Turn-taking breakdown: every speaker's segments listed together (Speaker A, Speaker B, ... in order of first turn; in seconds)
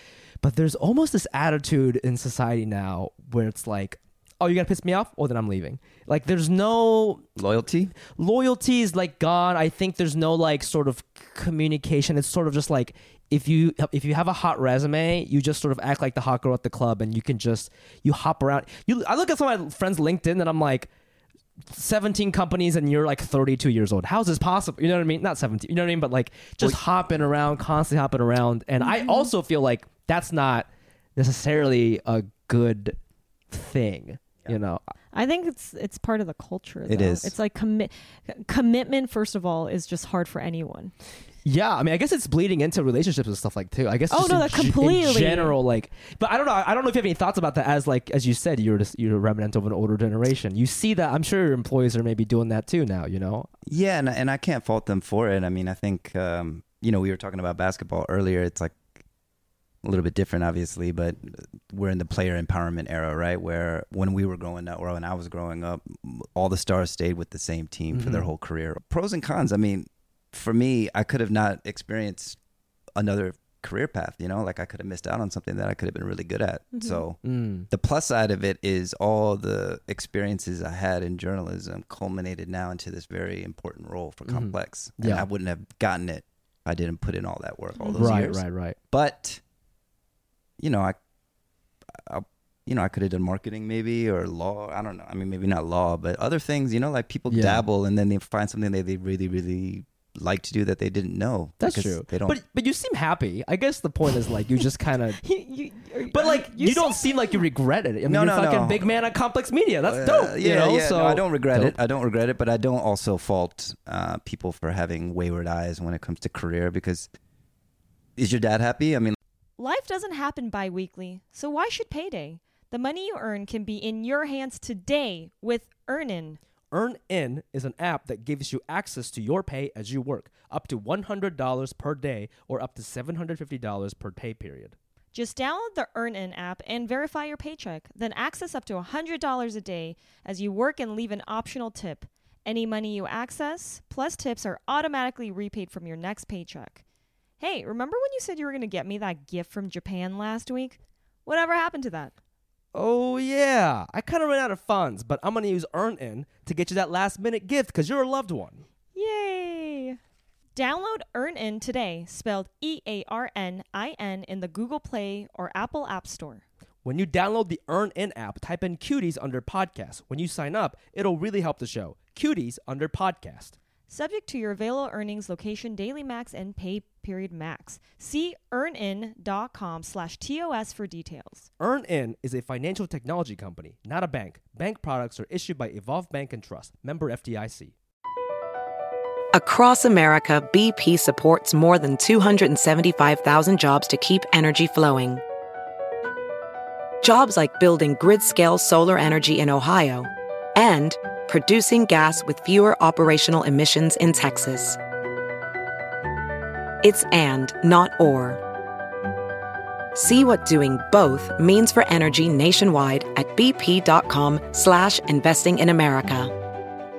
Speaker A: 0.4-7.3, 8.0-20.9, 21.7-33.0, 33.5-34.8, 41.5-53.5, 67.9-68.3, 77.2-77.7, 84.3-85.3, 88.0-88.8, 97.3-97.7, 101.6-105.2, 106.1-111.8, 126.7-134.8, 152.7-158.6, 166.8-173.6, 181.6-187.7
Speaker B: 7.4-7.9, 36.9-37.4, 53.7-58.8, 59.8-72.4, 73.0-89.4, 90.6-91.0, 91.9-102.4, 108.1-108.9, 109.9-117.1, 118.2-119.2
Speaker C: 28.8-29.3, 35.1-40.9, 44.1-45.5, 76.7-77.0, 87.8-88.2, 105.2-107.4, 119.6-126.4, 135.1-146.8, 147.4-152.1, 158.9-160.0, 160.6-166.4, 173.9-181.5
Speaker D: 189.3-195.2, 197.0-204.8, 206.8-208.4, 209.9-216.3